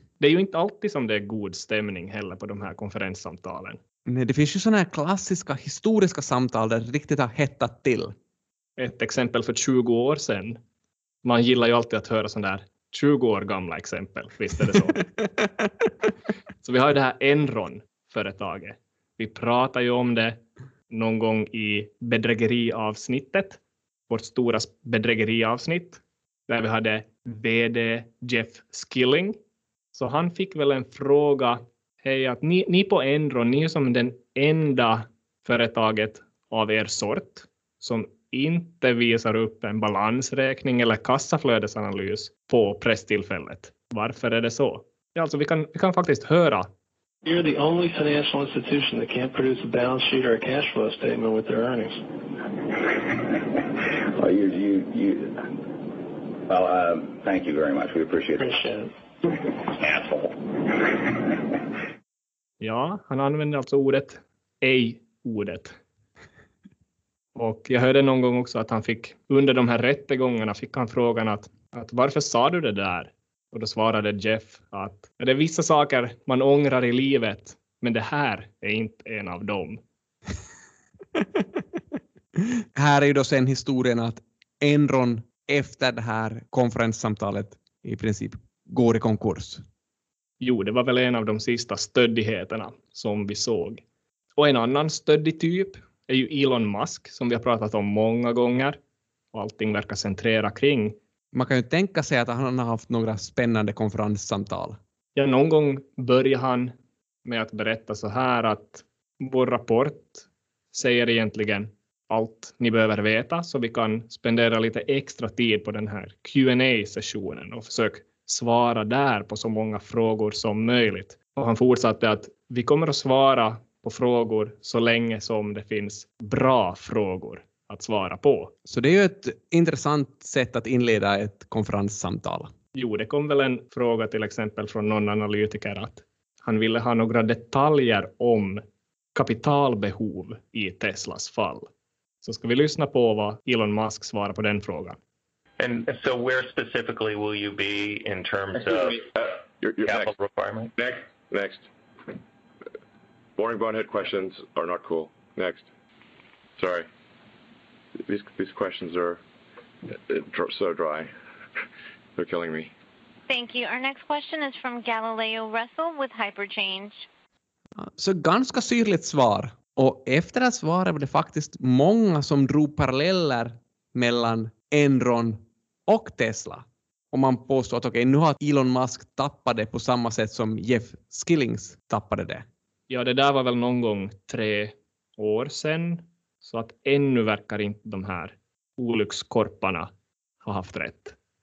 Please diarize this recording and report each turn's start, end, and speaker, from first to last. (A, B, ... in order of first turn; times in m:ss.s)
0:00.2-0:03.8 A
0:04.1-0:08.1 B
0:08.8-0:10.6 A
0:11.2-0:15.0 A
0:16.6-0:29.4 A
0:29.9-0:46.7 A
0:47.2-0:52.0 C
0:54.1-0:55.4 D
0:56.5-0:58.6 D
0:58.4-0:58.9 C
0:59.5-1:00.3 D
1:02.6-1:05.7 A
1:07.4-1:19.8 A
1:22.8-1:29.6 B
1:30.4-1:33.8 A
1:34.4-1:38.8 A
1:39.3-1:41.0 A
1:41.3-1:44.8 B
1:45.2-1:46.7 A
1:47.2-2:08.5 A
2:08.7-2:12.5 B
2:12.8-2:18.6 A
2:19.1-2:21.7 A
2:22.2-2:25.0 A
2:25.6-2:29.1 E
2:29.6-2:30.1 F
2:29.8-2:30.7 E
2:30.8-2:31.6 F
2:33.4-2:35.7 F
2:36.6-2:36.9 F
2:38.1-2:39.2 F
2:40.1-2:41.1 F
2:42.2-2:42.7 F
2:43.3-2:47.0 G
2:47.8-3:02.4 B
3:02.9-3:09.9 A
3:10.4-3:11.2 A